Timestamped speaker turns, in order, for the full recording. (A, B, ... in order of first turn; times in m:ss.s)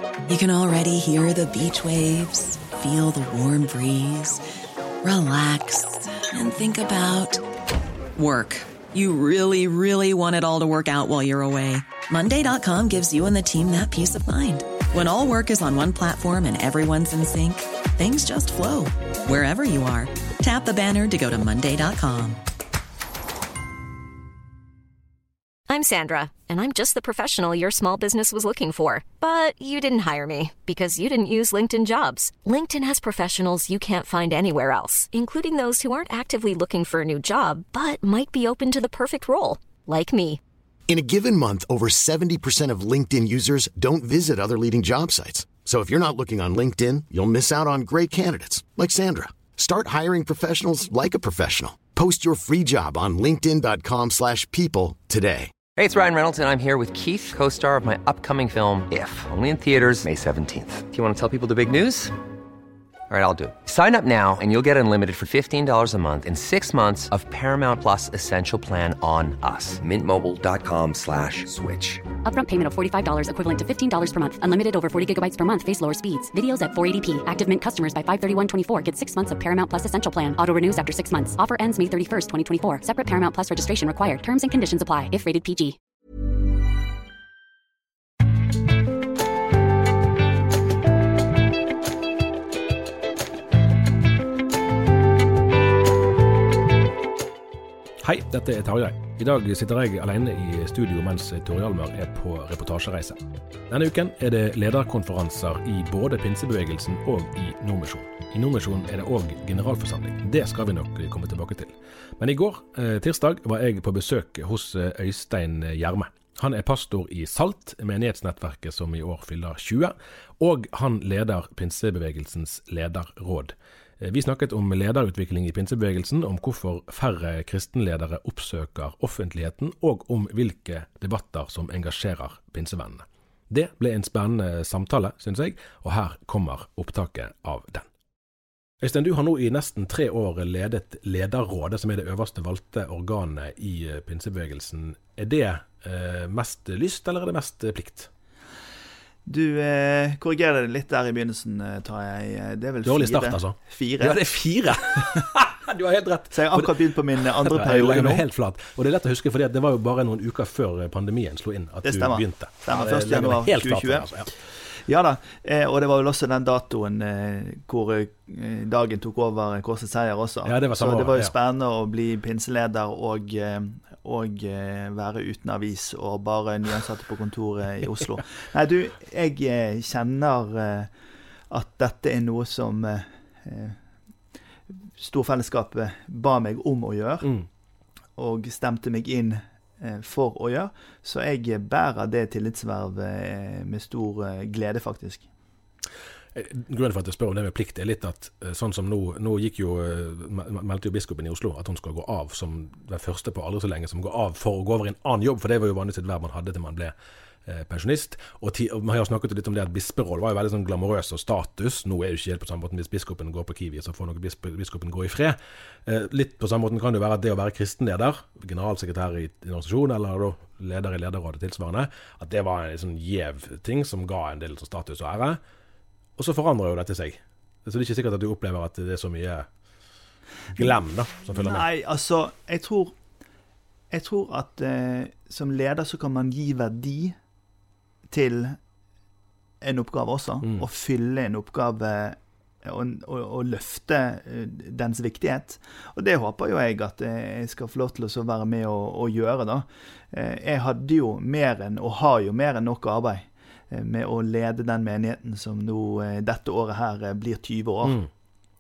0:00.3-0:04.4 A
0:05.0-0:07.4 A
0:08.2-0:22.4 A
0:25.7-0:40.4 B
0:40.9-0:55.5 C
0:55.8-1:02.2 D
1:03.1-1:12.1 D
1:12.2-1:25.8 E
1:38.0-2:17.9 F
2:18.8-2:28.1 F
2:29.3-2:34.2 G
2:32.8-2:44.3 F
2:36.3-2:38.2 G
2:41.8-3:00.9 G
2:50.4-2:51.3 F
3:01.5-3:03.8 G
3:05.0-3:07.3 G
3:08.2-3:15.3 G
3:16.3-3:26.9 F
3:27.5-3:45.4 F
3:46.2-3:49.5 F
3:50.5-3:51.7 F
3:51.3-3:53.0 G
3:53.9-3:57.2 G
3:58.1-3:58.6 G
3:59.6-4:18.0 G